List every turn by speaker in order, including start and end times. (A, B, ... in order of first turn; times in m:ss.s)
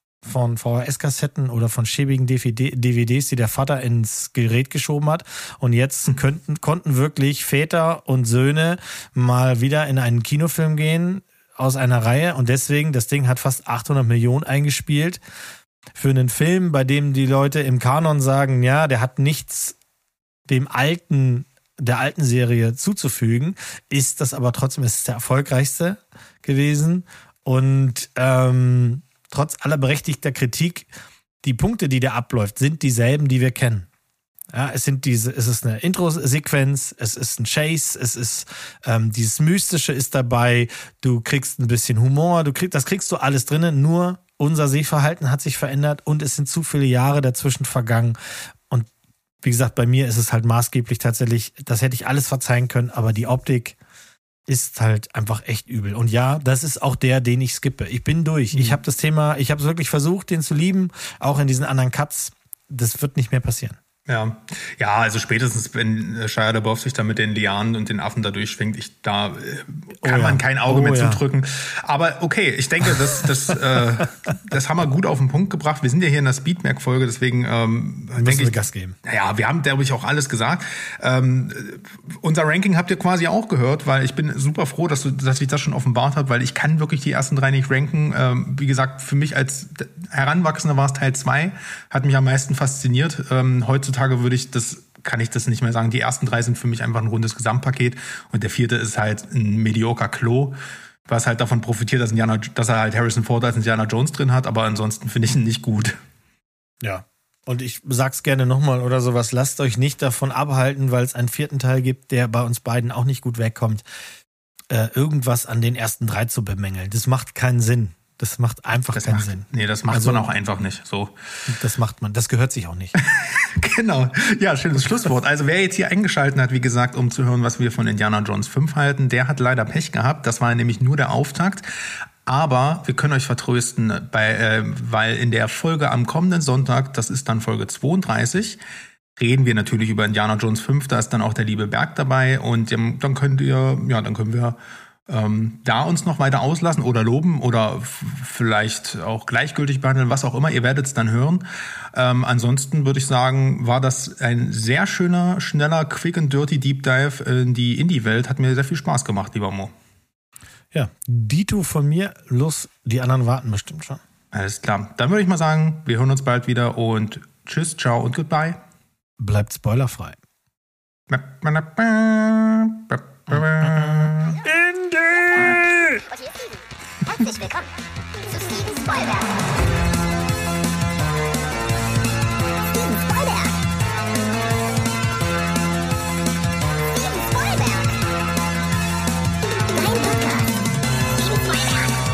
0:00.2-0:15.2 A
0:16.0-0:19.8 A
0:20.5-0:30.9 A
0:31.4-0:33.9 A
0:34.5-0:48.2 A
0:49.4-0:53.8 A
0:54.5-1:03.8 A
0:58.5-0:58.8 B
1:04.1-1:46.0 B
1:10.0-1:11.2 A
1:18.2-1:19.0 A
1:46.8-1:53.8 A
1:54.7-2:00.2 A
1:58.9-2:01.1 B
2:01.5-2:03.0 A
2:03.0-2:11.7 B
2:12.2-2:18.6 B
2:19.2-2:24.6 B
2:25.1-2:39.7 B
2:40.7-2:44.0 A
2:44.3-2:48.6 B
2:49.2-2:50.2 A
2:51.1-2:54.4 B
2:53.3-2:56.0 A
2:55.1-2:57.7 C
2:58.2-2:59.5 C
3:02.7-3:03.6 C
3:06.9-3:08.0 C
3:09.6-3:12.0 C